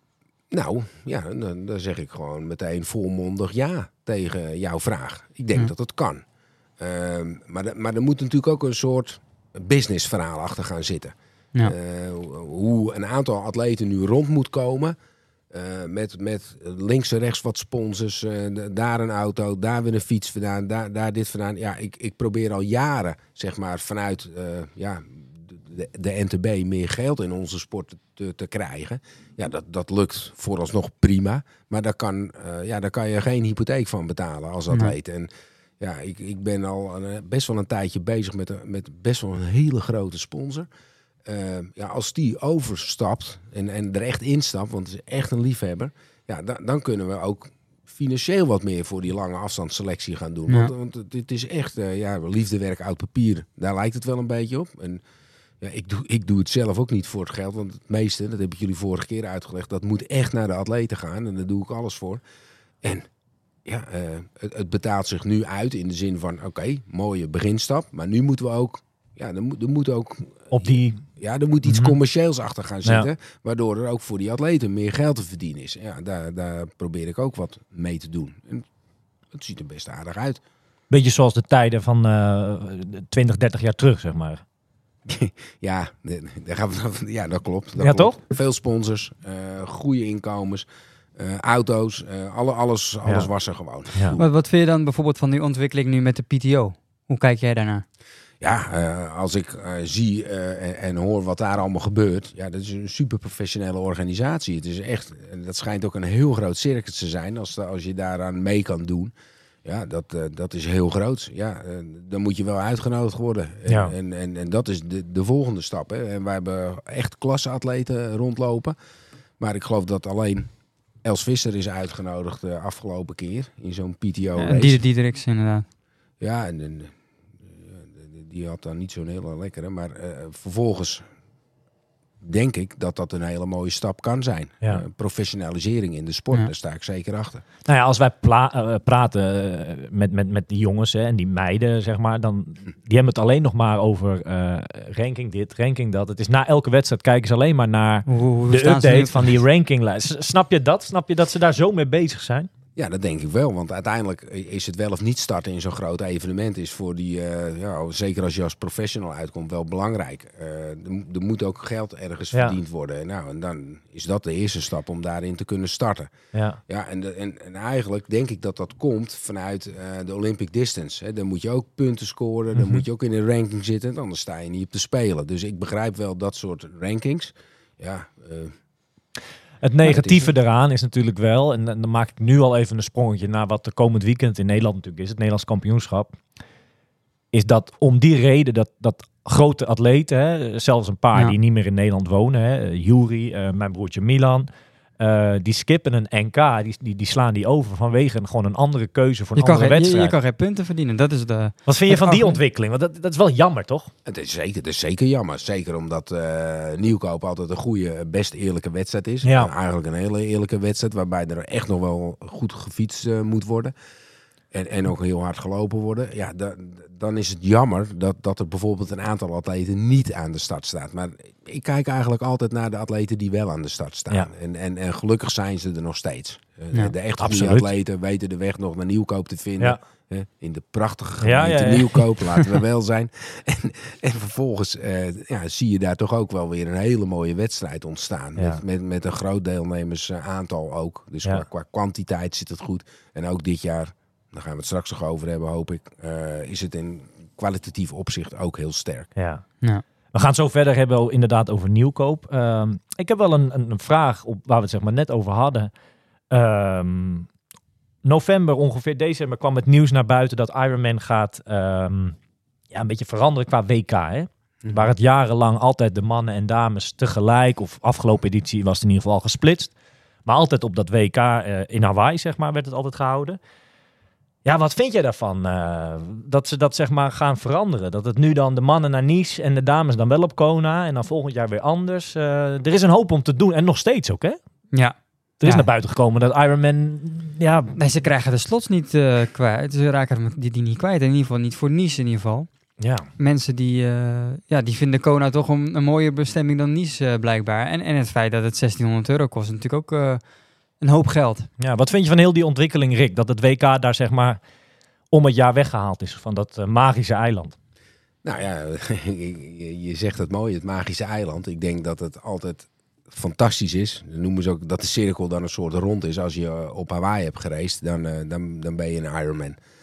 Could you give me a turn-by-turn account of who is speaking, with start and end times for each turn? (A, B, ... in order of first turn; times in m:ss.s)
0:00.5-0:06.2 A
0:06.8-0:15.0 A
0:15.5-0:40.7 A
0:41.2-0:55.0 A
0:55.6-1:02.2 A
1:02.8-1:03.1 A
1:03.6-1:18.6 A
1:10.5-1:11.0 B
1:11.6-1:11.9 B
1:19.3-1:20.4 A
1:20.9-1:24.4 B
1:25.0-1:34.2 A
1:27.8-1:28.2 B
1:34.2-1:37.8 C
1:38.4-1:49.1 A
1:49.6-1:58.8 A
1:53.7-1:53.9 B
1:59.4-2:00.5 A
2:01.0-2:04.8 A
2:04.4-2:05.6 C
2:06.2-2:11.0 A
2:12.2-2:17.4 A
2:17.6-2:32.5 B
2:28.1-2:29.4 C
2:32.8-2:46.1 A
2:42.3-2:42.6 B
2:46.3-2:46.6 B
2:46.7-2:58.5 A
2:52.6-2:52.8 B
2:59.6-3:06.2 B
2:59.8-3:00.3 A
3:07.3-3:20.1 B
3:19.4-3:22.4 C
3:21.6-3:23.9 B
3:24.0-3:33.7 A
3:29.2-3:29.5 B
3:34.5-4:09.1 A
3:47.2-3:47.7 B
3:51.2-3:52.6 B
3:58.4-3:58.6 B
4:09.2-4:09.4 B
4:10.1-4:15.7 B
4:16.3-4:17.3 B
4:18.0-4:22.2 B
4:22.7-4:29.7 B
4:24.6-4:24.9 A
4:30.2-4:33.4 B
4:34.4-4:44.4 B
4:44.7-4:45.7 C
4:45.4-4:47.7 B
4:47.8-4:52.5 C
4:52.8-4:53.1 B
4:53.2-5:00.2 C
5:00.8-5:01.5 C
5:01.6-5:04.4 B
5:05.1-5:07.6 B
5:08.2-5:19.6 A